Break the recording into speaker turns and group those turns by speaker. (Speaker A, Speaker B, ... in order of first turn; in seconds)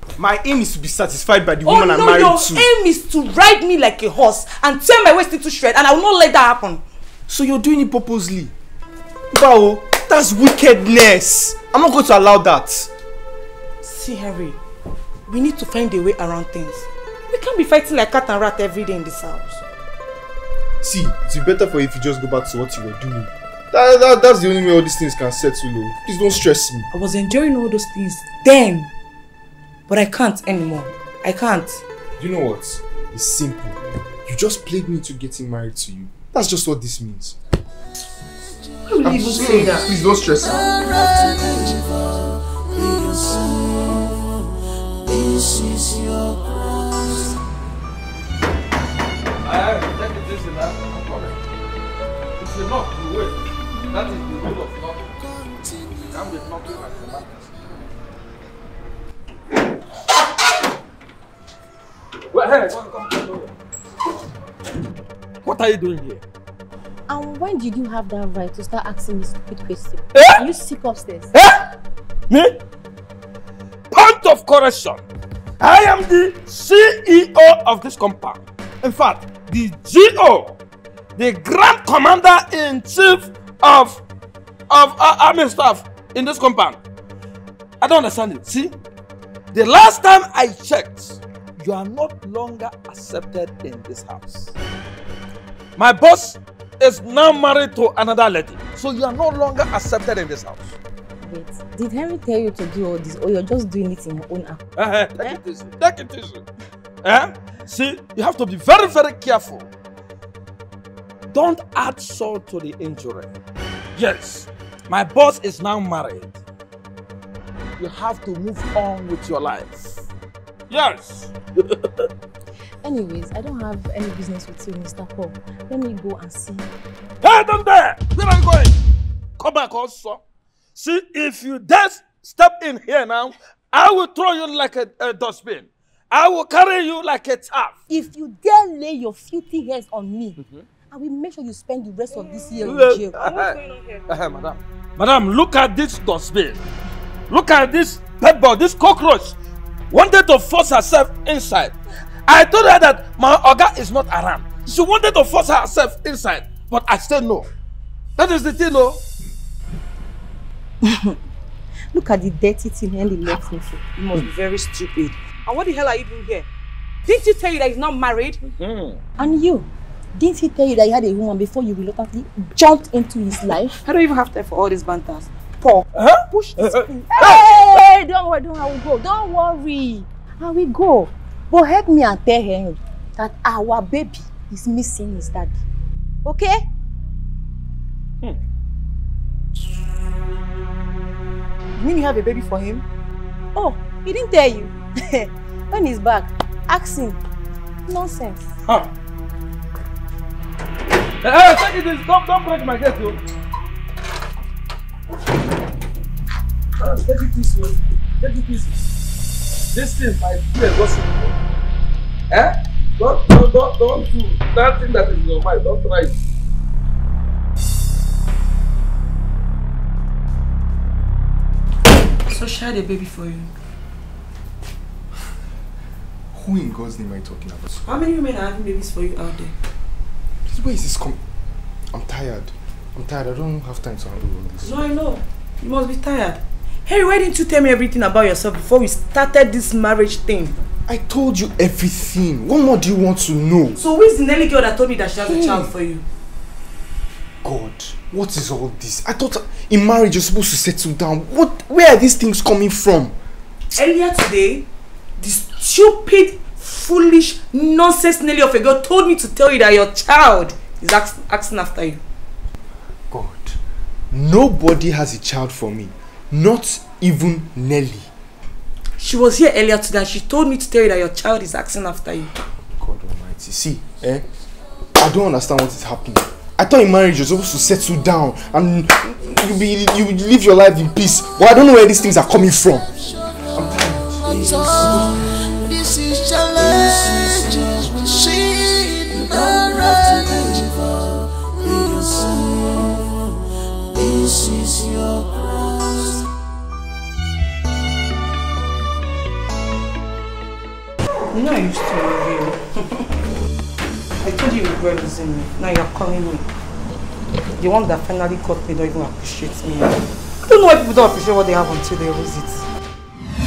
Speaker A: 0.2-2.7, 7.3-8.5, 9.3-12.9, 20.8-26.9, 32.2-37.4, 39.0-40.7, 226.3-227.9, 230.5-231.2, 231.9-234.8, 240.9-243.8, 247.4-253.2, 263.1-263.6, 264.1-268.1, 272.8-274.3, 275.0-282.9, 283.5-284.9
Speaker B: 1.6-6.8, 13.8-14.6, 15.3-19.6, 26.9-28.9, 29.9-31.8, 38.9-39.9, 143.1-144.1, 164.0-166.5, 167.1-168.4, 173.8-177.4, 191.8-192.8, 222.3-223.5, 227.8-229.6, 234.6-240.6, 243.8-246.0, 253.8-254.7, 255.2-262.0, 269.0-272.3, 301.3-303.1, 304.2-306.4, 307.6-312.7
Speaker C: 39.9-44.4, 45.0-47.4, 55.2-56.9, 284.2-293.3, 293.8-296.3
Speaker D: 49.4-51.4, 52.4-55.1, 56.1-57.4, 62.3-63.5, 65.4-66.2, 70.1-70.5, 71.3-71.7, 72.3-72.6, 73.9-75.0, 75.6-80.6, 81.2-84.0, 84.7-86.8, 87.8-88.8, 89.5-94.5, 95.8-100.8, 104.8-106.5, 107.0-109.7, 111.3-113.3, 114.0-116.4, 117.8-120.0, 120.7-122.1, 127.2-128.8, 129.4-130.2, 130.8-137.8, 140.4-140.7, 142.6-143.6, 144.1-146.6, 147.3-149.4, 149.9-151.8, 152.3-157.5, 158.2-159.0, 168.6-169.0, 175.9-177.4, 201.2-203.2, 206.8-208.8, 209.7-211.4, 212.3-216.1
Speaker E: 67.1-71.3, 101.2-104.6, 122.8-126.7, 137.9-140.4, 140.9-143.2, 160.9-161.1, 161.9-163.8, 169.2-173.8, 177.1-185.6, 186.2-186.7, 193.6-197.2, 197.9-198.5